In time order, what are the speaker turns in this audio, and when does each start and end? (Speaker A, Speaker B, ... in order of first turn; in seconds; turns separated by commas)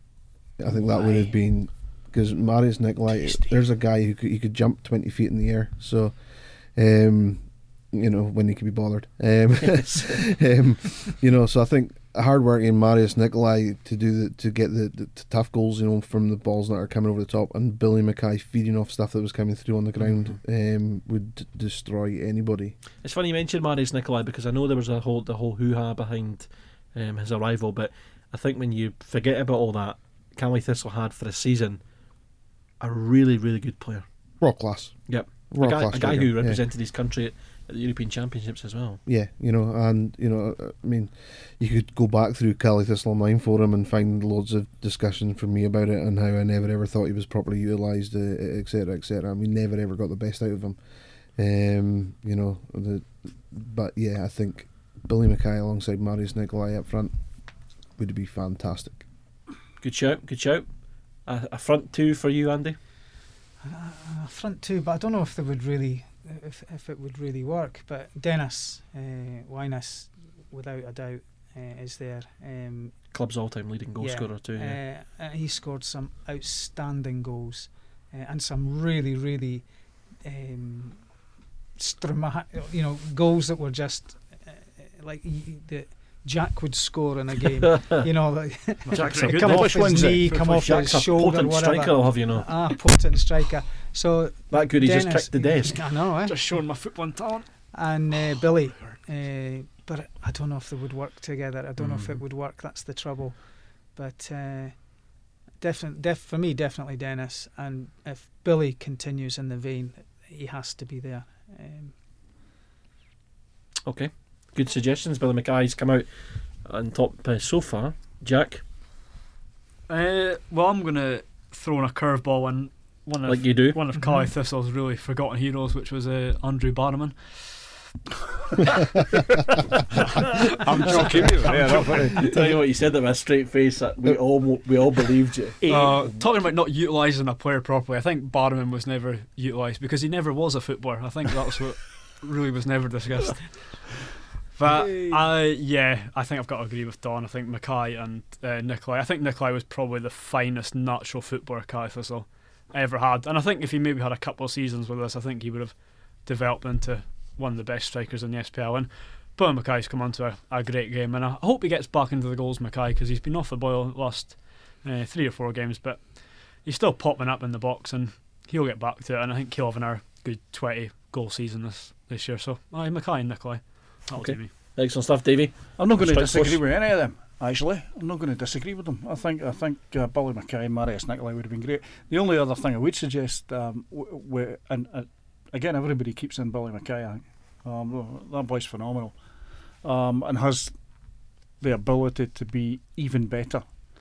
Speaker A: 0.6-6.1, Speaker B: 0.9-1.3, Speaker B: 3.1-3.6, Speaker A: 6.7-22.8, Speaker C: 9.6-10.2, Speaker C: 20.0-20.3, Speaker C: 23.0-31.8, Speaker C: 32.8-34.0, Speaker A: 34.4-36.6, Speaker C: 35.1-39.0, Speaker A: 39.0-50.8, Speaker A: 51.4-57.1, Speaker A: 58.0-59.0, Speaker C: 59.8-60.6, Speaker C: 61.2-62.8, Speaker D: 63.6-72.9, Speaker C: 73.1-74.8, Speaker D: 74.0-79.6, Speaker D: 80.2-81.0, Speaker D: 81.8-96.8, Speaker C: 87.6-88.1, Speaker E: 88.9-90.9, Speaker C: 88.9-89.6, Speaker B: 89.4-90.2, Speaker C: 90.5-92.5, Speaker C: 94.5-95.8, Speaker E: 96.2-97.7, Speaker D: 97.7-105.0, Speaker C: 101.8-102.2, Speaker D: 105.6-111.9, Speaker C: 113.8-116.0, Speaker C: 116.6-118.6, Speaker E: 119.9-127.7, Speaker C: 123.2-123.8, Speaker E: 130.0-132.2, Speaker B: 130.6-132.5, Speaker C: 130.9-135.6, Speaker B: 135.6-136.1, Speaker E: 135.7-144.0, Speaker E: 144.5-174.6, Speaker C: 174.1-176.6, Speaker B: 175.8-189.2, Speaker B: 189.8-190.8, Speaker B: 191.6-193.7